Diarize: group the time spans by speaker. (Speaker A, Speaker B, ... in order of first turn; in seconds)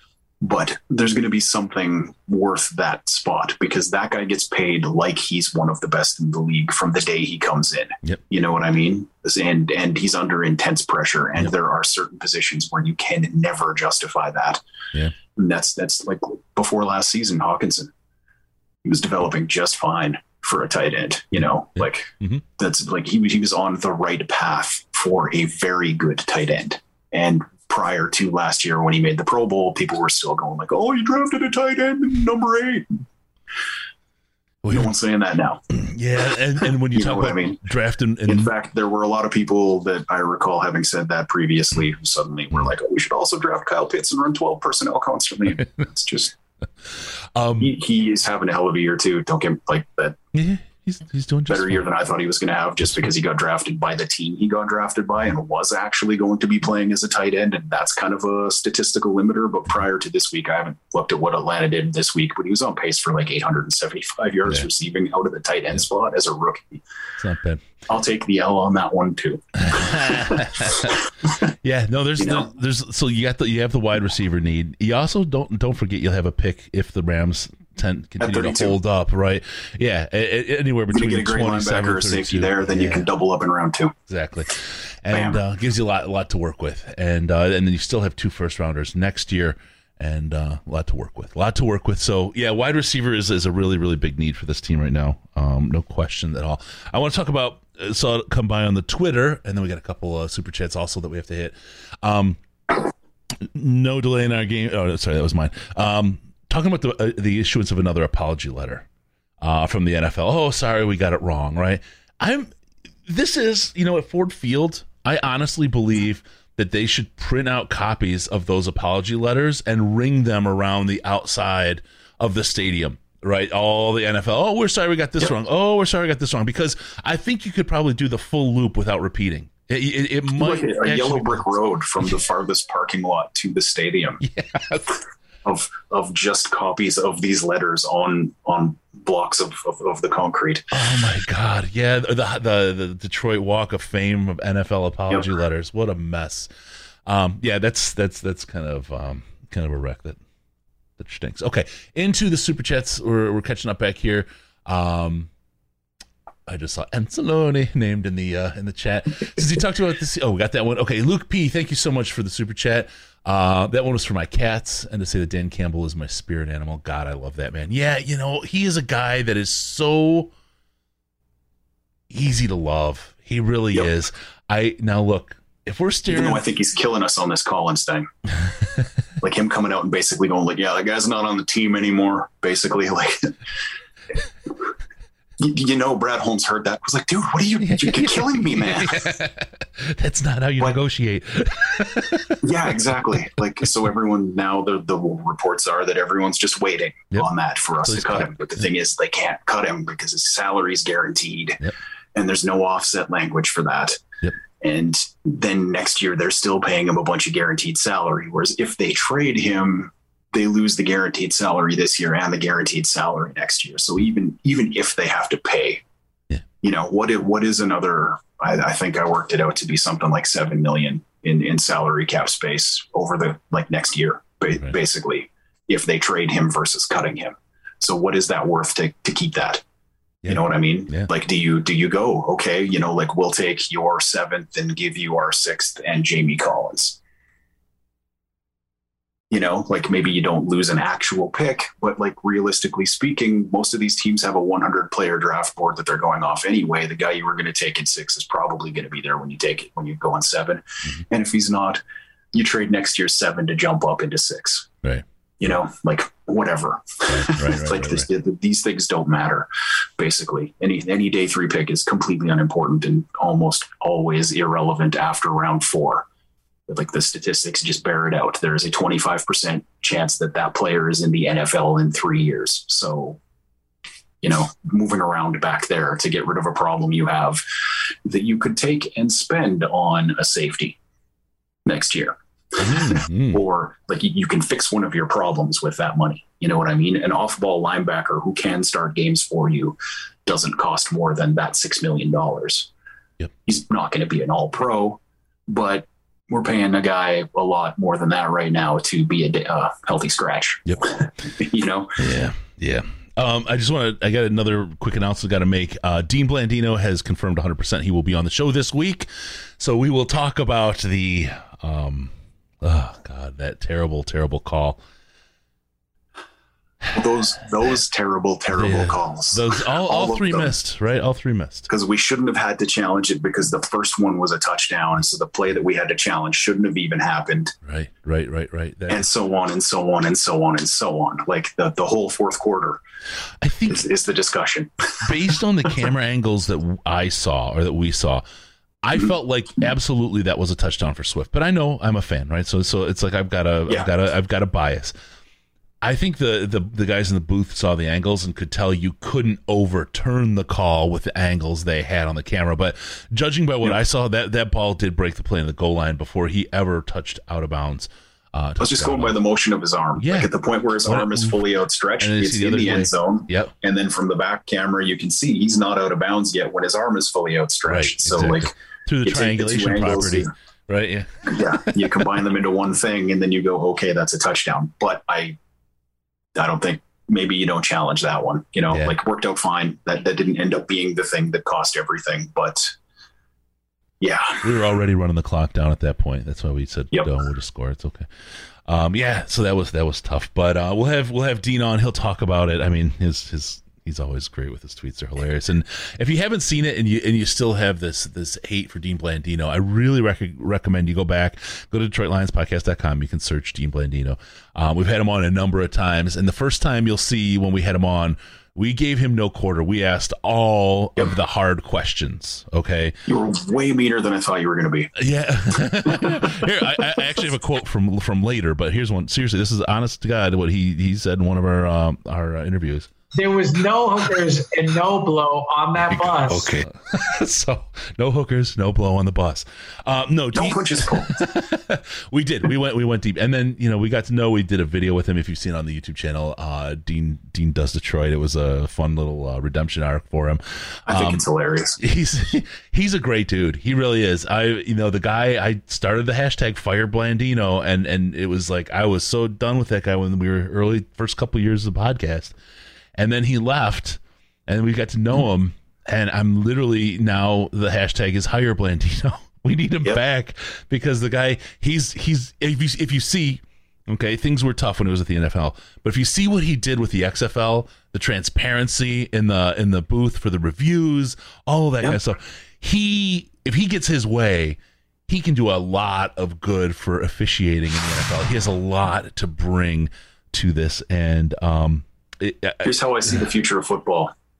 Speaker A: 0.4-14.6, 15.3-17.9, 18.8-32.9, 34.7-35.6, 36.9-37.6, 38.3-46.3, 47.6-50.2, 51.5-66.8, 67.9-71.4, 72.2-72.5, 78.2-78.8, 80.9-83.9, 85.1-85.4, 130.4-134.2, 135.4-140.7, 176.1-178.1, 179.2-183.3, 185.4-189.0, 192.4-201.6, 202.1-204.0, 204.6-215.8, 216.6-229.6, 230.3-237.0, 239.3-251.8, 252.3-254.7, 255.4-266.1, 266.7-273.2, 274.2-277.4, 278.0-280.8, 281.6-292.7, 293.4-302.0, 316.9-320.5, 321.7-327.5, 328.9-332.8, 333.7-335.1, 358.6-368.5, 369.0-370.3, 371.3-375.4, 376.3-382.7, 384.0-384.4, 413.1-414.9, 415.9-416.5, 430.3-431.2, 440.9-441.8, 482.6-484.1
Speaker B: 21.8-22.4, 34.6-34.9, 35.7-38.5, 47.3-47.7, 50.3-51.8, 52.8-53.1, 67.2-67.6, 69.6-71.0, 71.6-83.1, 84.1-102.4, 103.4-108.8, 109.4-112.5, 113.1-131.4, 134.2-135.0, 140.7-146.5, 147.1-150.2, 151.0-155.3, 156.5-170.3, 172.1-176.4, 187.6-192.4, 197.8-198.6, 230.2-231.1, 257.1-258.1, 282.6-283.4, 302.0-314.8, 318.5-321.7, 327.6-329.1, 333.4-333.9, 335.0-338.2, 338.8-344.9, 345.8-359.2, 360.0-360.3, 360.8-361.4, 362.0-363.5, 367.7-372.1, 378.7-378.9, 384.4-388.1, 388.7-412.9, 415.0-422.9, 425.8-441.2, 441.8-452.3, 453.0-482.8
Speaker C: 423.1-426.6